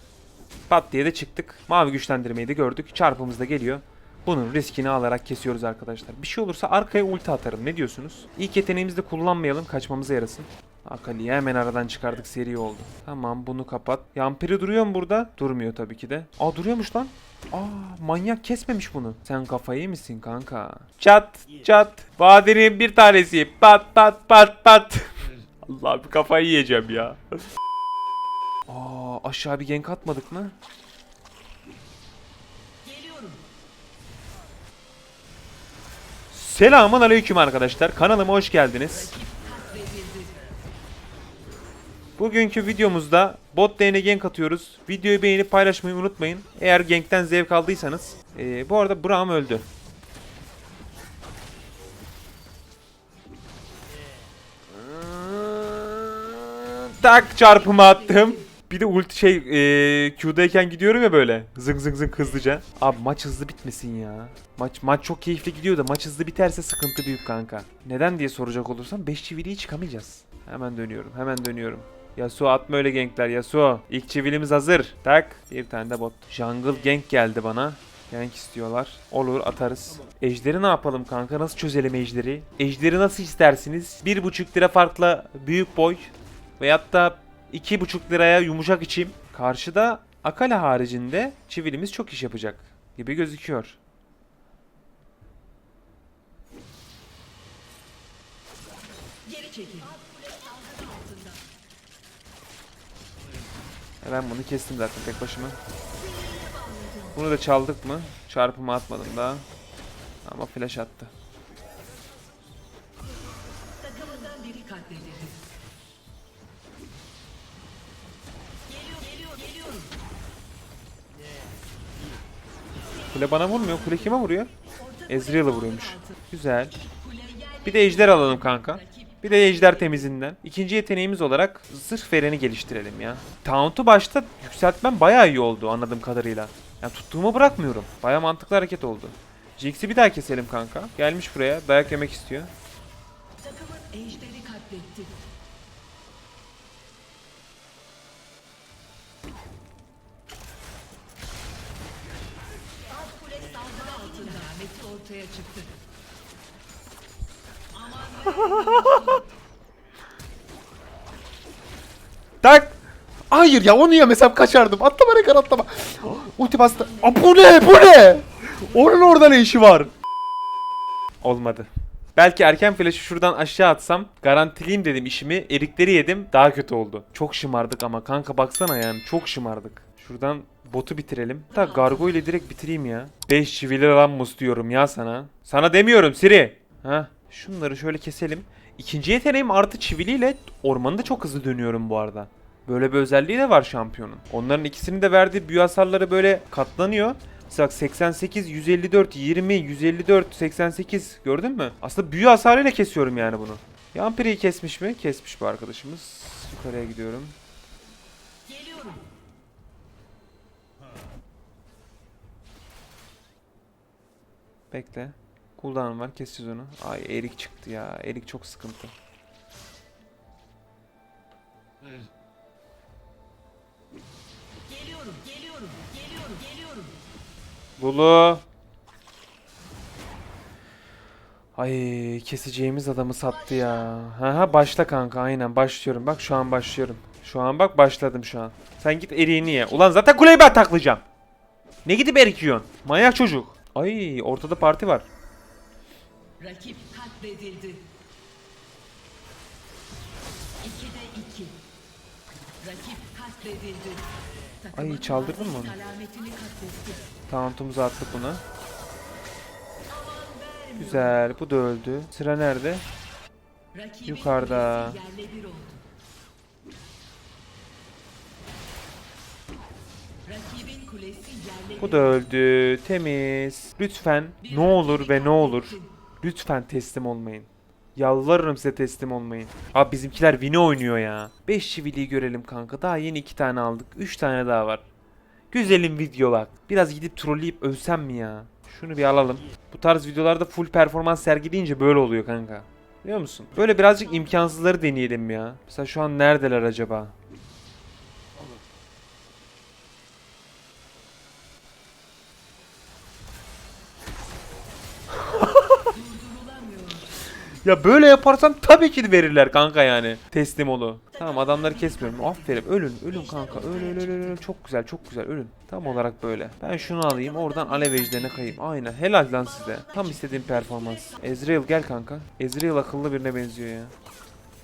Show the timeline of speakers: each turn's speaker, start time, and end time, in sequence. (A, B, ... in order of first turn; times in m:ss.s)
0:00.7-0:27.2 A
0:28.7-0:30.5 A
0:32.8-0:33.4 B
0:36.3-0:39.1 A
0:39.1-0:40.3 B
0:42.2-0:49.6 A
0:54.7-1:33.8 A
1:39.3-1:41.4 B
1:44.0-1:45.6 A
1:46.0-1:47.1 B
1:47.1-1:49.4 A
1:50.2-1:51.1 A
1:53.8-1:55.4 B
1:58.7-1:59.9 B
2:03.1-2:04.5 A
2:05.1-2:06.7 A
2:05.1-2:06.0 B
2:06.9-2:08.6 B
2:07.6-2:22.5 A
2:23.4-2:25.2 B
2:32.9-2:35.7 B
2:37.8-2:39.2 B
2:38.3-2:39.2 A
2:42.4-2:42.8 A
2:43.3-2:49.9 A
2:51.2-3:27.3 A
3:28.5-3:28.9 B
3:34.7-3:38.9 A
3:44.7-3:46.9 B
3:47.8-3:48.4 A
3:51.6-4:01.0 A
4:01.8-4:05.1 A
4:06.4-4:07.8 B
4:10.6-4:11.6 B
4:12.6-4:14.1 B
4:14.7-4:15.8 A
4:14.8-4:17.0 B
4:17.3-4:18.4 A
4:19.9-4:21.2 B
4:20.8-4:22.8 A
4:23.8-4:25.8 B
4:24.0-4:25.0 A
4:30.2-4:31.9 B
4:31.8-4:44.8 A
4:34.7-4:35.6 B
4:45.5-4:57.1 A
5:05.1-5:06.0 A
5:06.0-5:07.1 B
5:07.6-5:23.9 A